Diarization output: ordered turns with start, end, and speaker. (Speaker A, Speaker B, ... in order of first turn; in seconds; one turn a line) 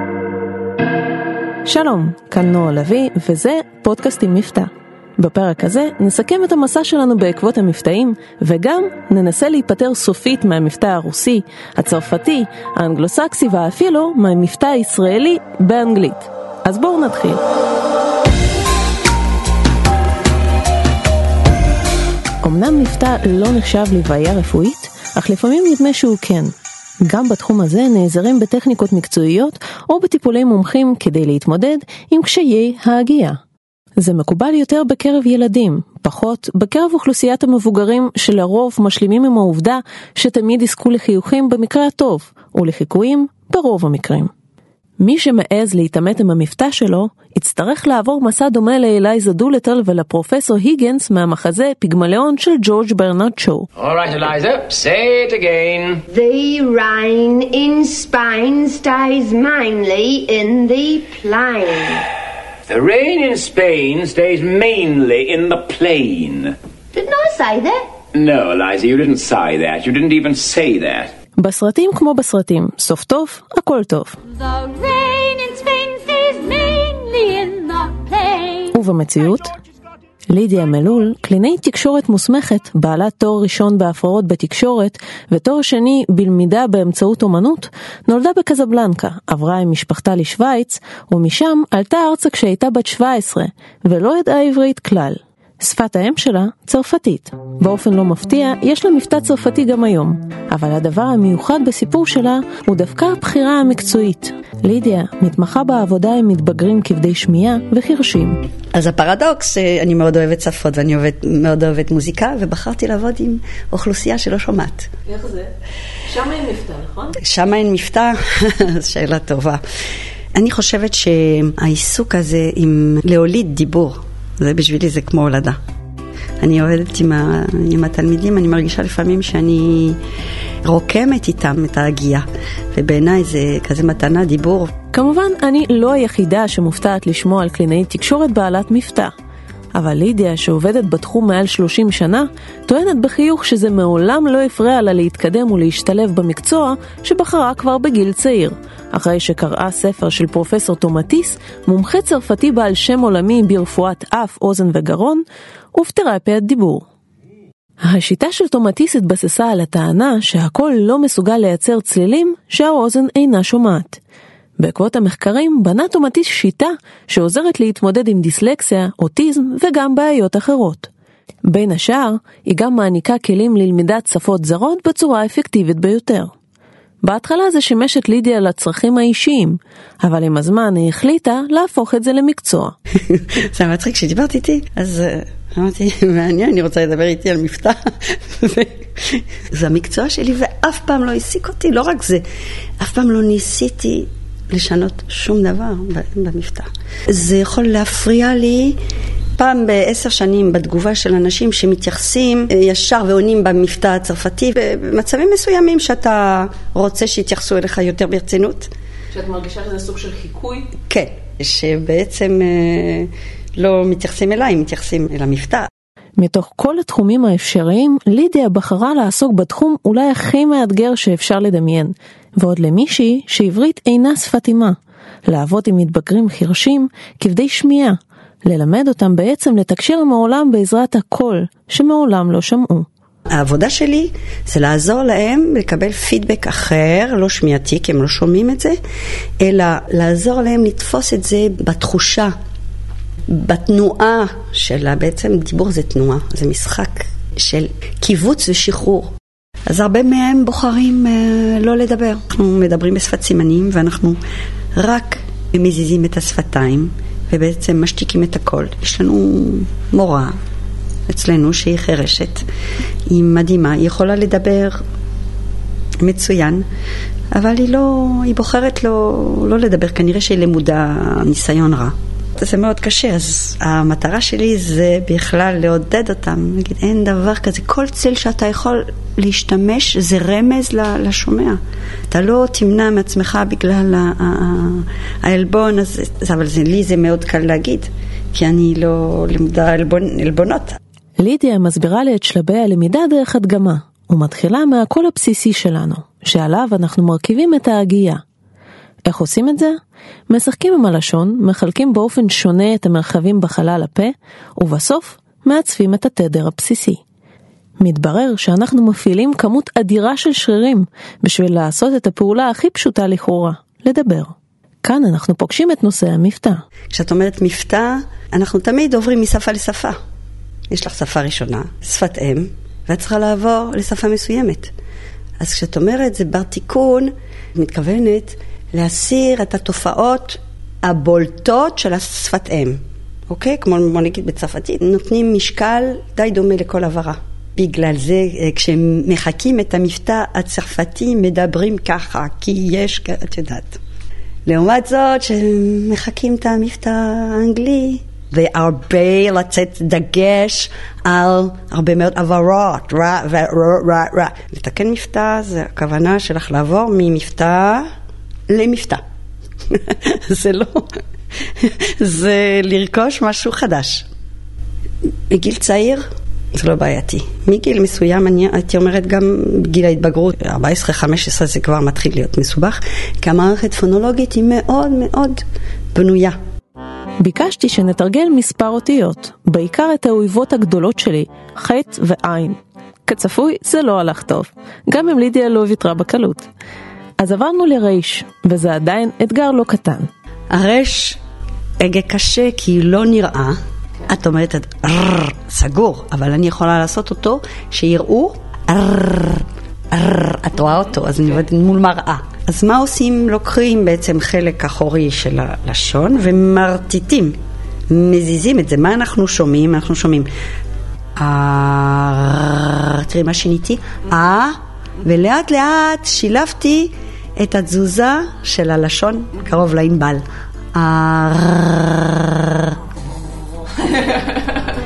Speaker A: 1.6-17.4
Speaker A: 22.4-33.4
Speaker A: 34.0-44.3
Speaker A: 45.0-53.7
Speaker B: 53.8-56.0
Speaker C: 56.1-62.0
Speaker B: 62.7-66.5
Speaker C: 66.9-67.8
Speaker B: 68.1-71.1
Speaker A: 71.4-74.2
Speaker D: 74.8-78.4
Speaker A: 78.7-79.5
Speaker A: 80.3-108.4
Speaker E: 108.7-114.9
Speaker A: 115.1-115.5
Speaker A: 116.1-117.2
Speaker E: 117.2-119.6
Speaker E: 120.3-125.6
Speaker E: 126.4-130.0
Speaker E: 130.6-134.7
Speaker A: 134.9-139.1
Speaker A: 139.7-156.8
Speaker A: 157.8-164.0
Speaker A: 164.6-170.9
Speaker A: 171.4-176.3
Speaker A: 177.0-182.8
Speaker E: 183.1-192.2
Speaker E: 192.8-198.8
Speaker E: 199.4-208.7
Speaker A: 209.1-210.7
Speaker E: 210.9-215.7
Speaker A: 216.2-224.8
Speaker A: 225.3-232.8
Speaker E: 233.3-238.8
Speaker E: 239.4-242.3
Speaker E: 243.3-249.1
Speaker E: 249.7-254.2
Speaker E: 254.8-260.3
Speaker E: 261.1-262.4
Speaker E: 263.1-264.8
Speaker E: 266.0-266.6
Speaker E: 267.3-281.6
Speaker E: 282.1-290.8
Speaker A: 291.2-298.2
Speaker A: 299.1-299.8
Speaker A: 300.3-307.0
Speaker A: 307.8-316.6
Speaker E: 316.9-319.9
Speaker E: 320.7-324.7
Speaker E: 325.4-343.8
Speaker E: 344.4-357.9
Speaker E: 358.5-359.0
Speaker E: 359.7-360.9
Speaker E: 361.6-364.1
Speaker E: 365.3-375.4
Speaker E: 375.9-376.4
Speaker A: 377.2-386.5
Speaker A: 387.2-390.1
Speaker E: 390.5-391.2
Speaker E: 391.8-393.6
Speaker E: 394.1-407.3
Speaker E: 407.9-410.3
Speaker E: 411.2-420.2
Speaker E: 420.7-422.7